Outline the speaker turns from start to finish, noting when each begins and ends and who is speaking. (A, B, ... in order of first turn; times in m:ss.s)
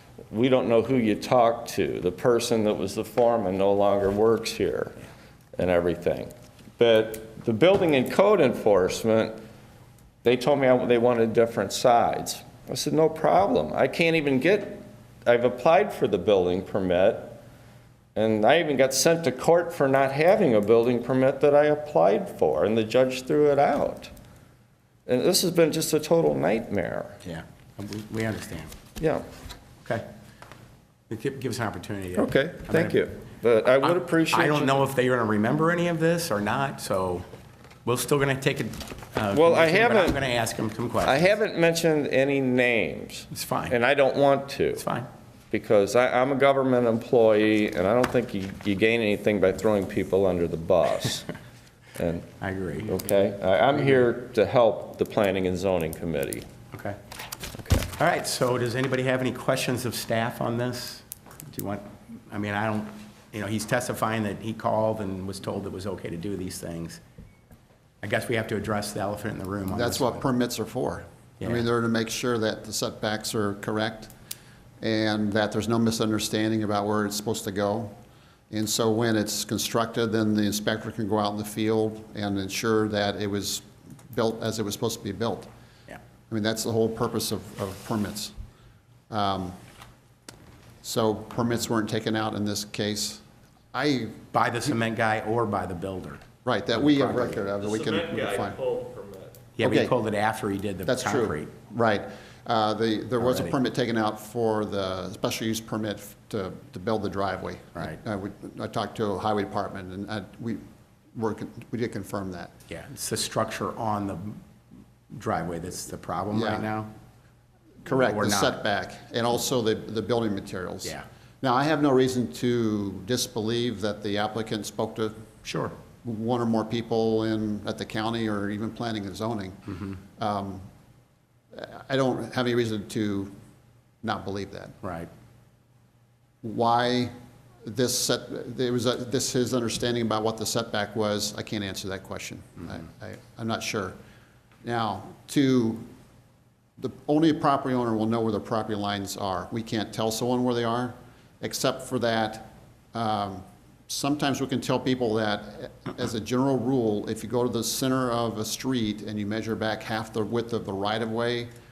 0:00.3-0:05.0 A
0:05.6-0:09.4 A
0:10.2-0:17.4 A
0:18.2-0:24.1 A
0:25.1-0:27.2 A
0:27.2-0:28.7 B
0:29.0-0:29.2 A
0:31.1-0:33.0 B
0:32.2-0:34.9 A
0:33.8-0:37.2 B
0:37.8-0:41.4 B
0:39.3-0:40.2 A
0:41.0-0:44.9 A
0:43.3-0:43.8 B
0:44.8-0:45.1 B
0:45.5-0:51.3 A
0:52.0-0:52.3 A
0:52.4-0:53.0 B
0:52.8-0:56.4 A
0:56.7-0:57.0 B
0:57.6-0:57.9 A
0:58.0-1:07.0 B
1:08.0-1:10.2 B
1:09.7-1:14.1 C
1:14.8-1:18.0 C
1:18.5-1:25.5 C
1:26.3-1:28.3 C
1:29.1-1:29.6 C
1:30.8-1:33.2 C
1:33.7-1:34.2 C
1:34.3-1:36.2 B
1:36.4-1:38.6 C
1:36.8-1:37.4 B
1:37.6-1:39.4 A
1:39.6-1:41.5 B
1:39.6-1:39.9 C
1:40.9-1:50.6 C
1:43.2-1:43.6 B
1:51.1-1:52.5 C
1:52.7-1:54.4 B
1:55.1-1:56.9 B
1:56.3-1:56.7 C
1:57.8-2:05.3 C
1:57.9-1:58.6 B
2:05.4-2:05.7 B
2:06.0-2:10.6 C
2:11.5-2:13.3 C
2:14.0-2:14.8 C
2:14.8-2:15.1 B
2:16.4-2:17.1 C
2:17.6-2:24.0 C
2:24.6-2:25.9 C
2:26.8-2:41.5 C